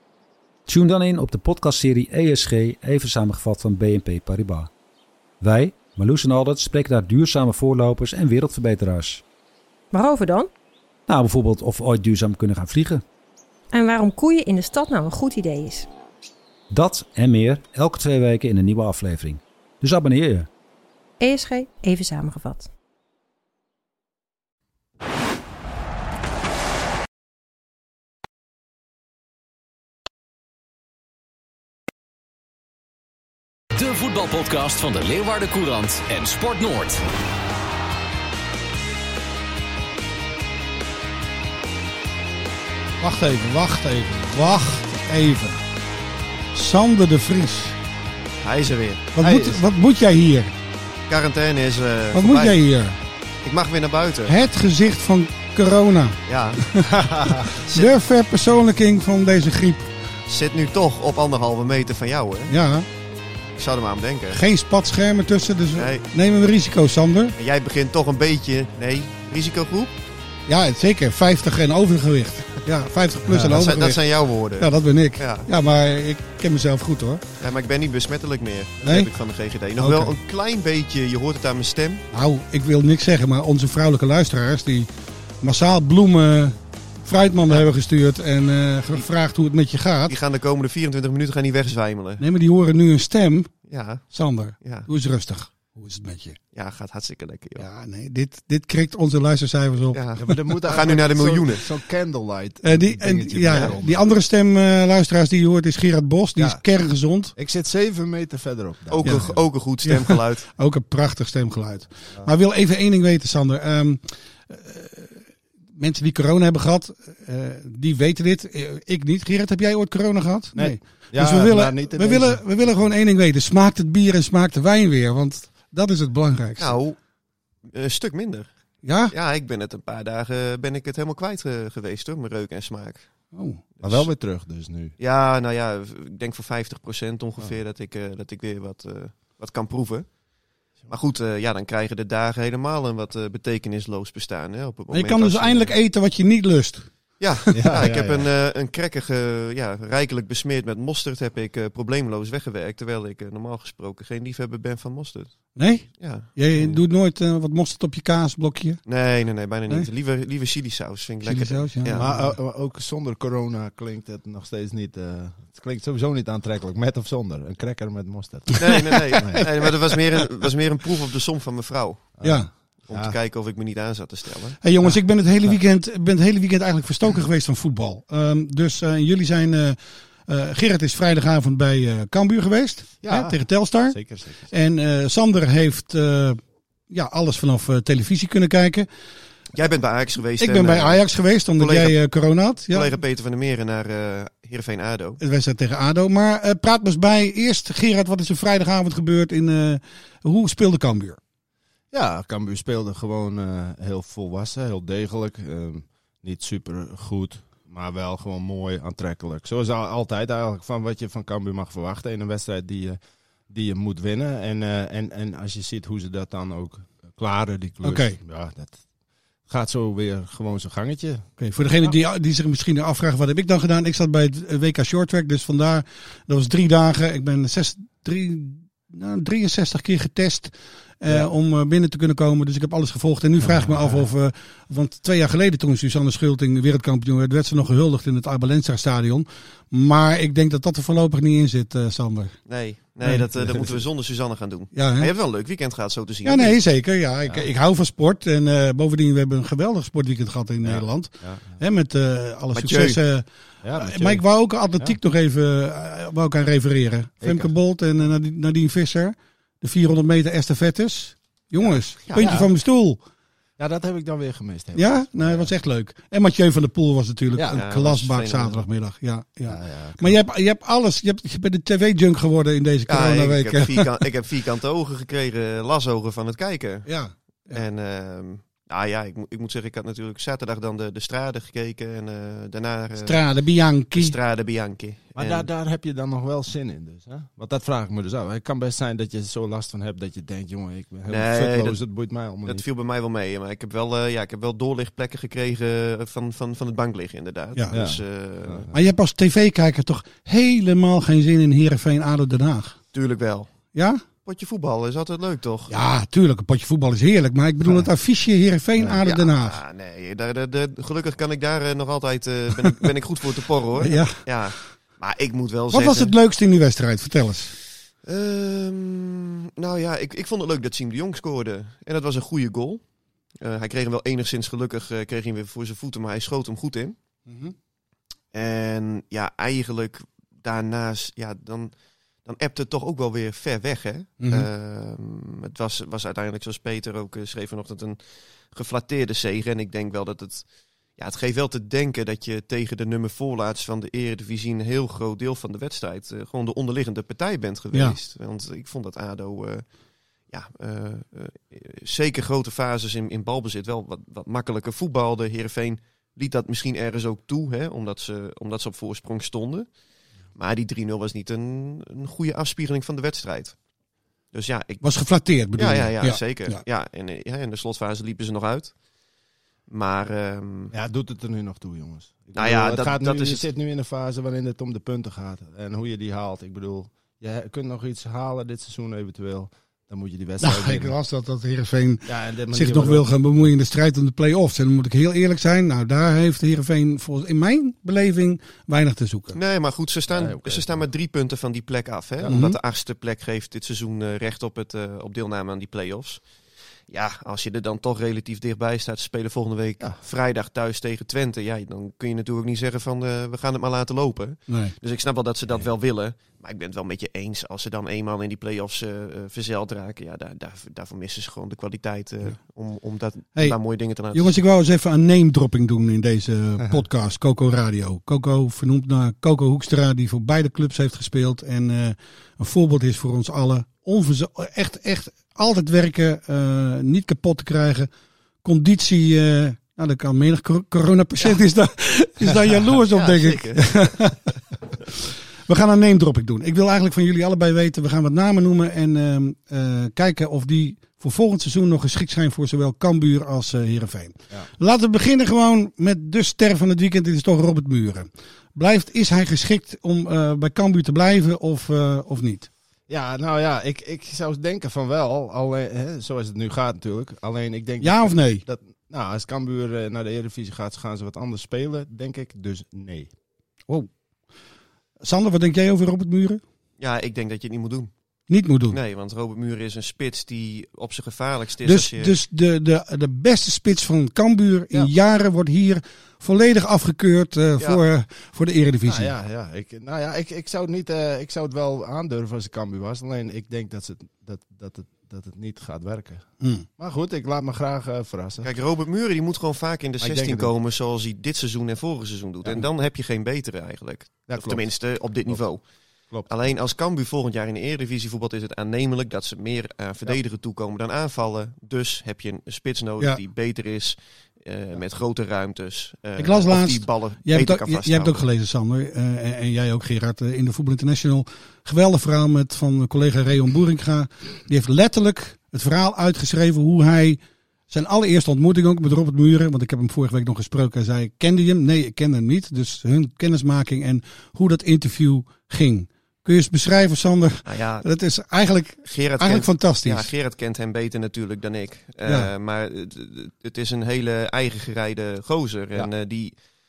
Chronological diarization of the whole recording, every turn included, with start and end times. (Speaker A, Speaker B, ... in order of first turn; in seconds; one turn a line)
Speaker A: 0.7-4.7
Speaker A: 5.4-9.2
Speaker B: 9.9-10.5
Speaker A: 11.1-13.0
Speaker B: 13.7-15.9
Speaker A: 16.7-20.5
Speaker B: 21.2-22.7
Speaker C: 33.8-37.0
Speaker D: 43.0-45.6
Speaker D: 46.5-47.8
Speaker E: 48.4-49.0
Speaker D: 49.1-50.5
Speaker F: 49.2-49.6
Speaker E: 51.1-52.6
Speaker D: 52.1-53.0
Speaker E: 53.4-54.3
Speaker D: 54.3-59.9
Speaker E: 56.3-56.6
Speaker F: 56.8-57.5
Speaker E: 57.6-57.9
Speaker E: 60.3-62.5
Speaker D: 62.5-62.9
Speaker E: 63.6-64.4
Speaker D: 64.3-67.3
Speaker E: 65.8-66.0
Speaker E: 67.4-69.9
Speaker D: 70.5-74.0
Speaker E: 73.3-75.5
Speaker D: 74.6-77.2
Speaker E: 77.4-82.0
Speaker D: 78.8-79.1
Speaker D: 79.8-80.1
Speaker D: 82.1-84.9
Speaker D: 85.4-90.2
Speaker E: 90.1-92.2
Speaker D: 92.2-93.5
Speaker E: 93.7-94.0
Speaker D: 94.1-96.4
Speaker E: 94.6-94.9
Speaker E: 96.5-97.7
Speaker D: 97.6-100.0
Speaker E: 99.9-101.7
Speaker F: 100.2-104.1
Speaker D: 102.6-107.3
Speaker E: 103.5-103.8
Speaker F: 106.4-106.6
Speaker F: 107.3-109.4
Speaker E: 108.9-110.5
Speaker D: 109.0-109.3
Speaker D: 109.8-115.2
Speaker D: 115.8-126.8
Speaker F: 120.5-122.9
Speaker E: 126.6-127.0
Speaker E: 127.7-128.5
Speaker D: 128.8-129.1
Speaker E: 129.1-133.1
Speaker D: 133.3-133.6
Speaker E: 133.8-134.1
Speaker F: 133.8-134.9
Speaker E: 135.0-140.1
Speaker E: 140.9-145.7
Speaker D: 144.9-146.9
Speaker E: 147.2-156.8
Speaker F: 147.5-148.3
Speaker D: 155.6-158.8
Speaker E: 158.9-162.1
Speaker D: 161.2-162.3
Speaker F: 161.9-169.5
Speaker E: 168.6-172.1
Speaker D: 169.2-169.4
Speaker F: 172.2-173.2
Speaker D: 172.2-172.5
Speaker E: 172.9-174.6
Speaker D: 174.6-186.4
Speaker F: 183.0-184.5
Speaker D: 186.9-188.9
Speaker E: 189.5-191.0
Speaker D: 190.4-192.9
Speaker E: 191.6-192.0
Speaker E: 192.7-195.2
Speaker D: 195.2-201.2
Speaker F: 201.9-213.0
Speaker F: 213.5-218.8
Speaker D: 217.8-218.2
Speaker F: 219.5-221.3
Speaker D: 221.4-242.4
Speaker F: 233.6-234.0
Speaker E: 242.5-246.6
Speaker D: 244.8-245.1
Speaker D: 246.2-263.0
Speaker F: 250.6-251.6
Speaker E: 252.5-253.0
Speaker F: 253.6-254.2
Speaker F: 257.2-257.5
Speaker F: 261.6-262.5
Speaker F: 263.6-265.5
Speaker D: 264.8-273.9
Speaker E: 267.5-268.6
Speaker F: 269.5-270.2
Speaker E: 272.9-276.9
Speaker D: 276.9-277.6
Speaker E: 277.5-283.2
Speaker D: 283.0-284.2
Speaker E: 283.9-285.5
Speaker F: 285.1-292.6
Speaker E: 291.1-291.8
Speaker E: 292.5-298.7
Speaker F: 297.7-298.7
Speaker D: 298.7-302.8
Speaker E: 302.9-303.5
Speaker D: 303.8-304.0
Speaker E: 304.2-305.7
Speaker D: 305.7-309.6
Speaker F: 307.6-307.9
Speaker E: 309.0-316.1
Speaker D: 313.8-314.2
Speaker D: 315.7-317.6
Speaker E: 318.1-322.8
Speaker E: 323.4-327.0
Speaker D: 327.3-327.5
Speaker E: 328.3-331.7
Speaker E: 332.2-338.0
Speaker D: 334.2-334.5
Speaker E: 338.5-340.5
Speaker E: 341.0-349.6
Speaker E: 350.3-359.7
Speaker E: 360.4-363.6
Speaker E: 364.3-364.9
Speaker D: 364.8-366.6
Speaker E: 365.5-368.7
Speaker E: 369.7-370.7
Speaker F: 370.7-380.9
Speaker E: 372.3-373.5
Speaker D: 380.4-389.4
Speaker F: 382.1-383.5
Speaker E: 389.3-396.2
Speaker F: 390.1-390.8
Speaker D: 392.3-392.6
Speaker E: 396.9-414.4
Speaker D: 404.5-404.8
Speaker D: 414.1-427.9
Speaker D: 428.4-434.4
Speaker E: 432.9-434.0
Speaker D: 435.5-452.5
Speaker F: 452.9-463.1
Speaker D: 457.8-458.4
Speaker D: 465.0-466.4
Speaker E: 466.8-467.9
Speaker D: 468.3-468.8
Speaker E: 468.7-472.1
Speaker D: 471.6-479.1
Speaker F: 478.9-488.5
Speaker D: 486.4-486.7
Speaker E: 488.4-495.6
Speaker F: 490.0-490.5
Speaker F: 494.3-494.7
Speaker E: 496.3-508.2
Speaker D: 506.2-517.2
Speaker D: 517.7-530.1
Speaker E: 527.5-527.9
Speaker E: 528.9-536.4